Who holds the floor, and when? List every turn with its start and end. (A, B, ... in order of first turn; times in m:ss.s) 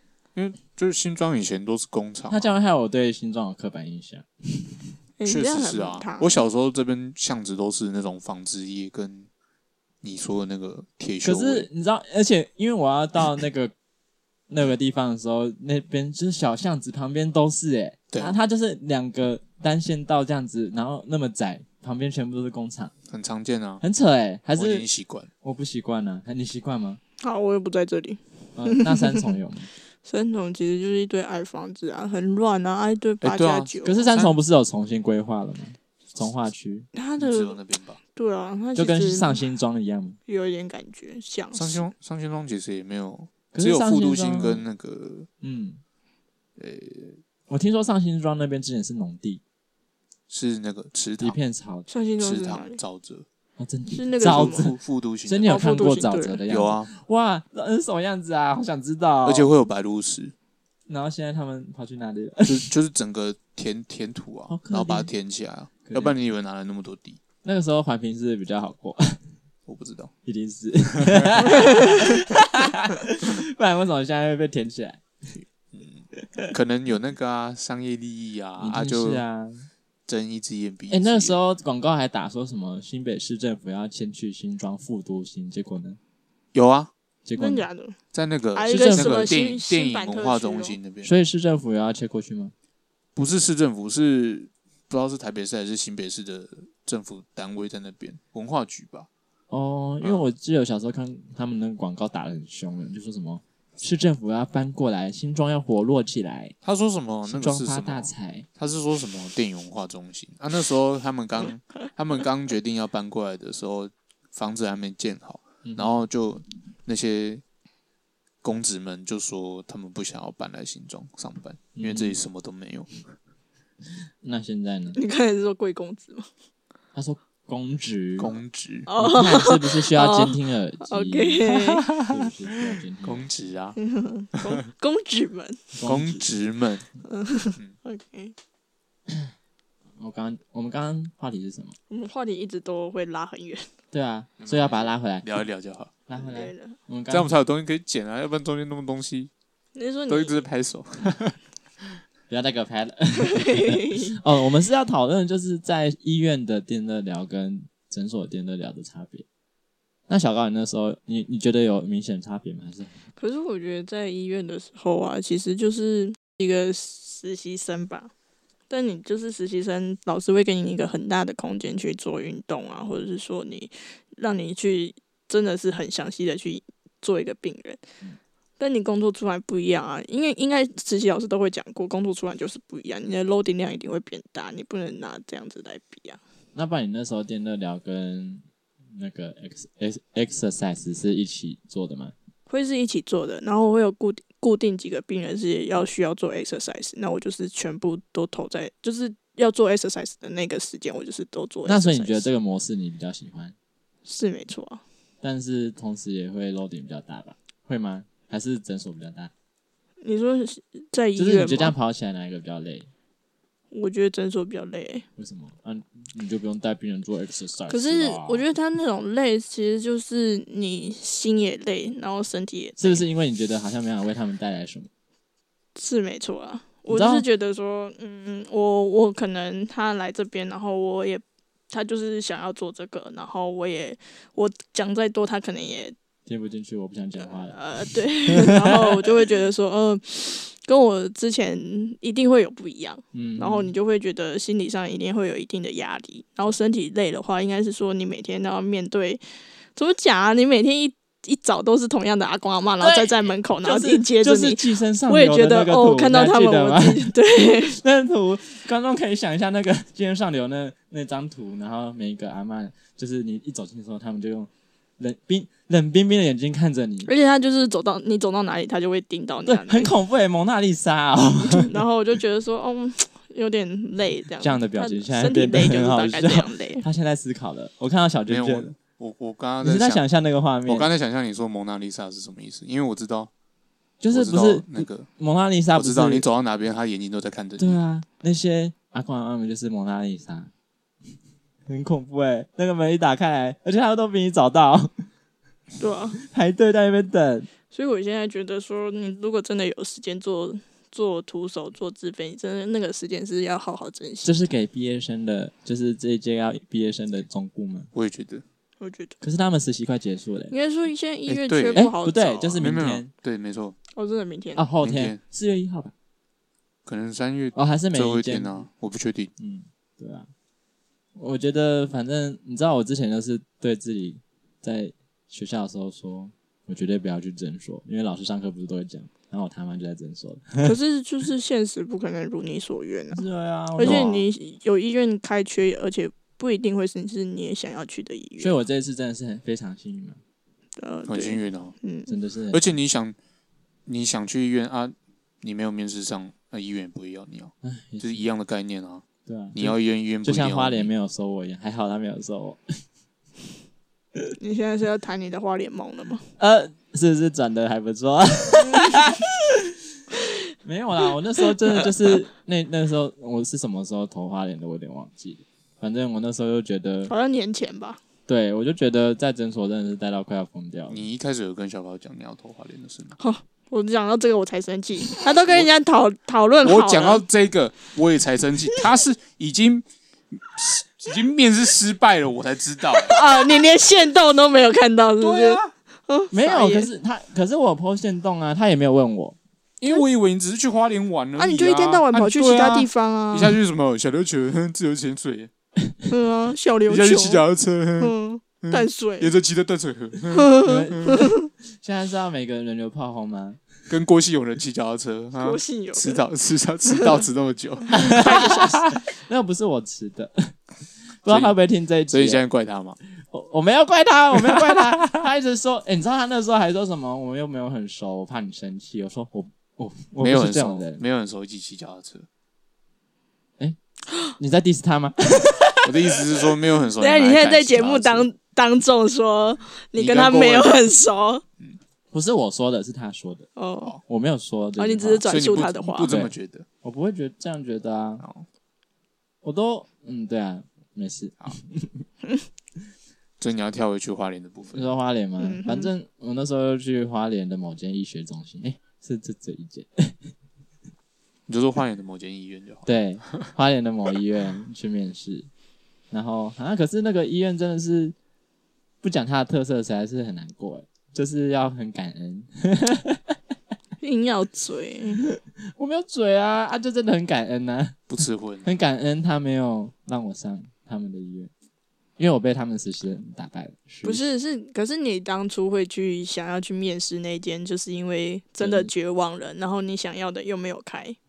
0:00.4-0:02.5 A
0:02.3-0:04.9 B
0:05.2-0:06.4 C
0:05.3-0:09.3 A
0:10.0-0:11.7 A
0:11.2-0:13.7 B
0:14.5-0:22.9 B
0:18.1-0:18.4 A
0:23.1-0:23.8 A
0:23.8-0:24.8 B
0:24.6-0:25.3 A
0:25.4-0:27.0 B
0:27.2-0:29.3 C
0:28.6-0:29.7 B
0:30.0-0:34.1 C
0:33.2-0:34.4 A
0:33.8-0:36.9 B
0:36.9-0:37.6 C
0:37.2-0:38.0 A
0:38.1-0:39.4 C
0:38.8-0:40.2 B
0:40.3-0:41.9 C
0:41.5-0:45.3 A
0:43.5-0:44.6 B
0:45.4-0:45.8 B
0:46.6-0:47.2 A
0:47.5-0:49.4 B
0:50.3-0:51.4 A
0:51.2-0:51.9 B
0:51.9-0:52.8 C
0:52.2-0:53.2 A
0:53.6-0:59.5 B
0:53.9-0:54.7 C
0:54.2-0:55.6 A
0:55.4-0:56.4 C
0:56.5-0:56.9 A
0:59.2-1:00.3 A
1:00.9-1:02.7 B
1:02.4-1:07.2 A
1:04.5-1:05.1 B
1:05.8-1:06.2 B
1:07.4-1:09.2 B
1:09.7-1:10.1 A
1:10.3-1:15.4 B
1:11.0-1:11.3 A
1:15.4-1:19.2 A
1:16.2-1:16.5 B
1:18.6-1:19.7 B
1:20.1-1:21.4 A
1:20.9-1:26.0 B
1:26.5-1:26.9 A
1:27.2-1:27.7 B
1:27.4-1:28.0 C
1:28.1-1:31.1 A
1:28.6-1:30.8 C
1:28.7-1:29.3 B
1:31.0-1:32.5 B
1:33.2-1:39.1 A
1:39.5-1:46.6 B
1:46.6-1:57.4 A
1:47.2-1:48.5 B
1:55.6-1:56.1 B
1:58.4-2:03.0 A
2:01.8-2:02.2 B
2:04.2-2:05.0 B
2:05.0-2:06.3 C
2:06.9-2:08.4 B
2:08.2-2:08.9 A
2:08.9-2:11.9 C
2:09.0-2:13.3 B
2:11.6-2:13.8 A
2:13.8-2:15.6 C
2:15.8-2:16.3 B
2:15.8-2:16.8 A
2:17.1-2:18.3 C
2:20.0-2:21.8 B
2:21.9-2:23.7 C
2:23.9-2:25.4 B
2:24.4-2:26.1 A
2:26.1-2:27.3 B
2:26.2-2:26.8 C
2:27.1-2:29.3 A
2:29.8-2:30.4 C
2:30.1-2:31.4 A
2:32.3-2:39.3 B
2:33.2-2:34.2 C
2:40.1-2:43.0 B
2:43.2-2:48.1 C
2:48.7-2:57.8 C
2:58.6-3:06.2 C
3:06.6-3:12.1 B
3:12.5-3:22.3 C
3:21.7-3:23.6 B
3:24.1-3:24.8 C
3:25.2-3:29.3 B
3:30.0-3:31.8 C
3:31.2-3:32.9 B
3:33.7-3:35.0 C
3:35.2-3:38.4 B
3:37.7-3:43.0 C
3:42.8-3:44.9 B
3:45.8-3:56.0 C
3:46.9-3:47.2 B
3:56.3-3:57.6 B
3:57.5-4:09.2 C
3:58.3-3:59.1 B
4:03.1-4:03.7 B
4:09.8-4:17.8 C
4:12.8-4:17.2 B
4:17.7-4:27.1 B
4:27.1-4:29.9 C
4:29.4-4:31.8 B
4:31.5-4:36.8 C
4:34.4-4:38.7 B
4:38.3-4:40.0 A
4:39.6-4:40.9 B
4:40.6-4:43.3 A
4:44.0-4:46.2 B
4:44.1-4:45.1 A
4:45.8-4:47.8 A
4:47.6-4:50.5 B
4:51.7-4:54.9 B
4:55.8-4:56.2 C
4:56.2-4:57.5 B
4:57.7-5:04.3 C
5:04.2-5:07.9 B
5:07.9-5:08.4 A
5:08.8-5:09.2 C
5:09.2-5:10.5 B
5:10.5-5:12.7 C
5:11.3-5:11.9 A
5:11.8-5:13.1 B
5:12.6-5:13.8 A
5:14.0-5:14.7 C
5:14.6-5:15.9 B
5:14.8-5:15.2 A
5:16.9-5:19.3 A
5:17.6-5:18.6 B
5:19.4-5:20.3 B
5:21.2-5:30.8 B
5:30.6-5:38.6 C
5:33.1-5:34.1 B
5:33.8-5:34.2 A
5:38.4-5:40.2 B
5:40.8-5:42.1 C
5:41.1-5:41.8 A
5:42.1-5:42.6 B
5:42.5-5:43.2 A
5:43.9-5:49.0 A
5:47.6-5:48.2 B
5:49.3-5:52.6 B
5:49.6-5:50.9 A
5:54.4-5:56.2 C
5:56.4-5:59.7 B
5:58.8-5:59.1 C
6:00.6-6:07.1 B
6:07.1-6:08.0 C
6:08.3-6:11.0 B
6:10.9-6:13.2 A
6:13.2-6:17.2 C
6:16.6-6:23.2 A
6:23.0-6:26.9 C
6:25.2-6:25.7 A
6:26.3-6:29.4 B
6:29.8-6:35.5 A
6:31.4-6:33.6 C
6:36.1-6:37.4 C
6:36.9-6:41.2 A
6:38.0-6:39.3 C
6:40.3-6:41.5 C
6:40.6-6:43.6 B
6:43.9-6:49.0 A
6:45.4-6:46.2 C
6:47.9-6:50.5 B
6:48.2-6:48.6 C
6:51.2-6:52.4 B
6:51.3-6:51.6 A
6:52.1-6:53.0 A
6:53.1-7:01.0 B
7:00.2-7:02.3 A
7:04.4-7:06.5 B
7:05.8-7:08.3 A
7:07.0-7:11.4 C
7:10.0-7:10.8 A
7:12.1-7:13.5 B
7:13.6-7:14.0 C
7:14.0-7:15.2 B
7:14.8-7:16.1 C
7:15.3-7:16.6 A
7:16.1-7:18.2 B
7:18.2-7:18.5 A
7:19.4-7:22.1 B
7:23.4-7:24.9 A
7:24.7-7:30.2 B
7:25.4-7:25.9 C
7:31.5-7:33.5 A
7:32.9-7:35.5 B
7:36.1-7:38.2 B
7:39.0-7:43.4 B
7:44.0-7:45.3 C
7:45.3-7:48.0 B
7:48.1-7:48.7 A
7:48.6-7:51.5 B
7:52.2-7:54.3 B
7:54.0-8:01.2 C
7:58.6-7:58.9 B